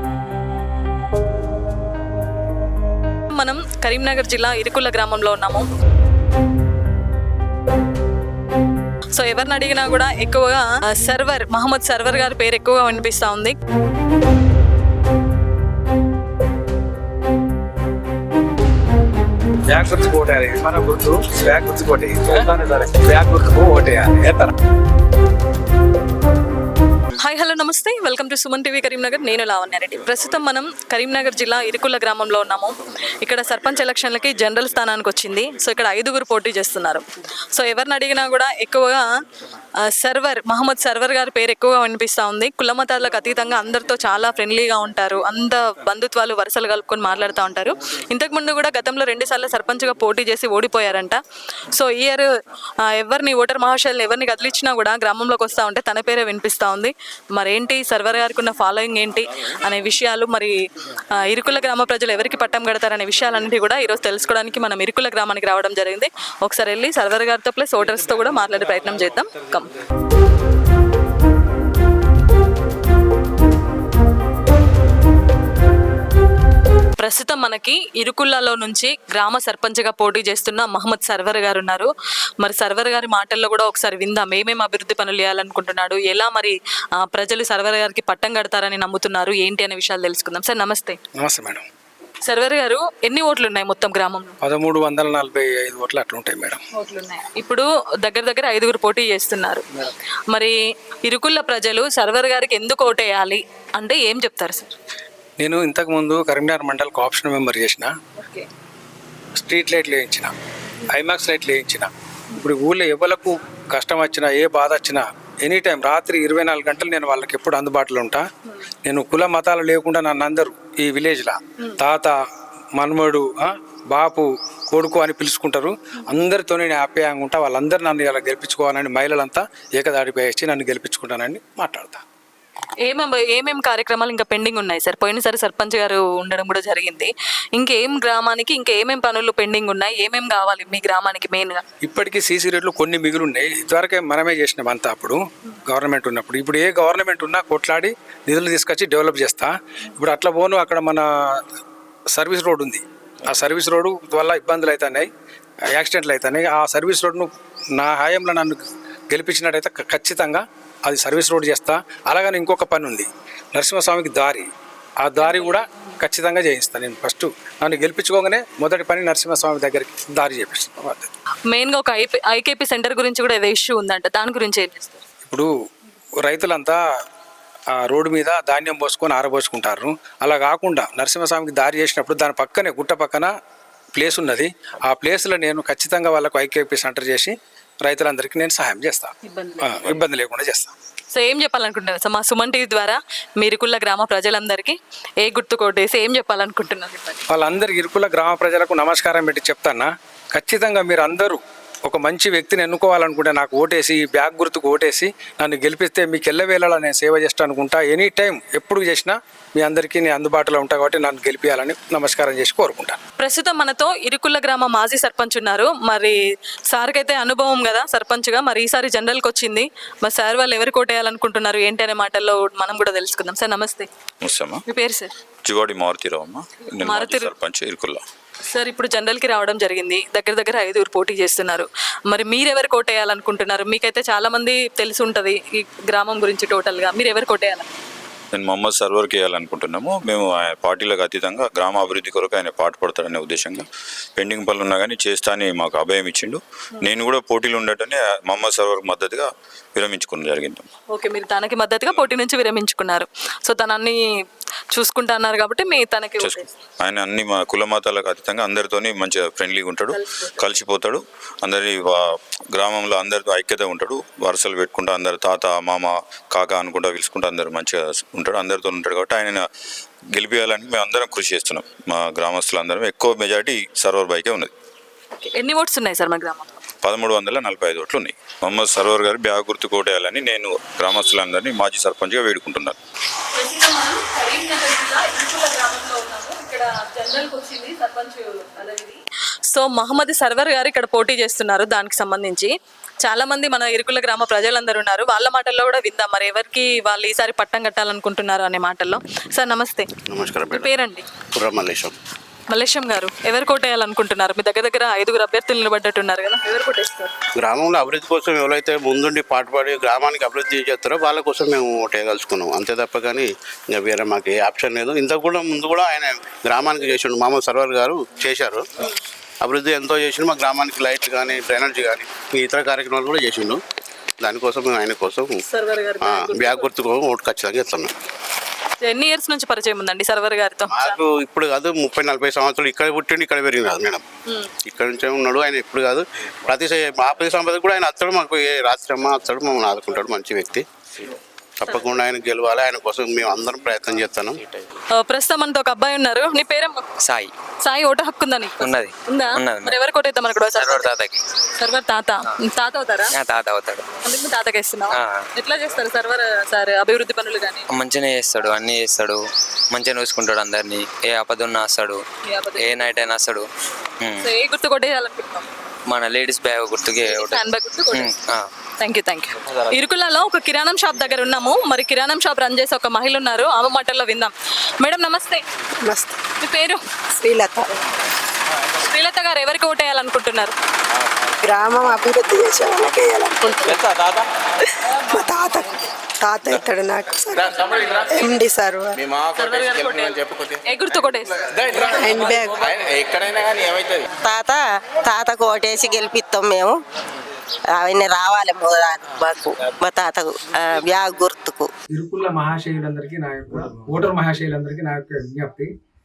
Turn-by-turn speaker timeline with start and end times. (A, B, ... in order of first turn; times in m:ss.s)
0:03.3-0:05.6 A
0:09.2-0:13.5 A
0:19.7-0:24.5 B
0:27.2-0:39.0 A
0:39.9-0:51.2 A
0:51.7-0:52.3 A
0:52.9-1:00.6 A
1:01.2-1:09.7 A
1:17.0-1:21.9 A
1:22.4-1:31.0 A
1:31.2-1:31.6 B
1:32.2-1:34.3 A
1:34.4-1:36.6 B
1:36.8-1:39.6 A
1:41.1-1:44.7 A
1:45.4-1:47.9 B
1:48.2-1:48.5 A
1:49.4-1:50.3 B
1:50.9-1:58.3 B
1:58.8-2:02.1 B
2:02.8-2:12.0 B
2:12.8-2:21.6 A
2:21.8-2:31.4 B
2:32.1-2:35.1 B
2:35.7-2:44.5 B
2:45.0-2:51.1 B
2:45.2-2:45.6 A
2:51.5-2:55.0 A
2:55.2-2:55.5 B
2:56.2-2:56.8 B
2:57.7-3:03.3 B
3:03.9-3:10.7 B
3:09.2-3:10.0 A
3:11.1-3:17.2 A
3:17.3-3:33.0 B
3:33.2-3:36.2 A
3:36.7-3:43.9 A
3:44.2-3:44.6 C
3:44.7-3:45.1 A
3:45.4-3:48.0 C
3:46.8-3:47.3 A
3:48.5-3:57.6 A
3:58.3-4:10.7 C
4:10.9-4:14.0 A
4:14.7-4:16.5 A
4:16.2-4:29.4 C
4:19.9-4:20.4 A
4:30.1-4:34.5 C
4:35.2-4:36.6 A
4:36.8-4:42.8 C
4:43.3-4:52.5 A
4:53.0-4:59.9 A
5:00.1-5:00.7 D
5:00.5-5:01.0 A
5:01.3-5:01.9 D
5:02.5-5:07.1 A
5:07.4-5:18.6 D
5:19.4-5:23.6 D
5:24.2-5:25.3 D
5:25.5-5:26.7 A
5:26.0-5:27.9 D
5:28.8-5:31.0 A
5:30.7-5:34.0 D
5:34.6-5:40.6 D
5:41.6-5:44.4 D
5:45.0-5:46.8 A
5:47.6-5:50.9 A
5:51.6-5:53.1 A
5:53.3-5:53.8 E
5:54.0-5:57.7 A
5:57.8-5:59.2 E
5:59.7-6:02.0 E
6:02.2-6:02.9 A
6:02.9-6:03.4 E
6:04.2-6:05.5 A
6:05.9-6:07.0 E
6:07.0-6:08.1 A
6:08.8-6:15.4 A
6:15.8-6:16.2 F
6:16.4-6:16.8 A
6:17.1-6:17.7 F
6:18.8-6:20.5 A
6:21.4-6:23.8 F
6:25.1-6:29.0 F
6:29.0-6:29.5 G
6:29.4-6:31.4 A
6:30.1-6:30.4 G
6:31.6-6:34.0 G
6:32.0-6:32.6 F
6:34.2-6:36.8 H
6:37.7-6:41.7 H
6:41.9-6:45.7 B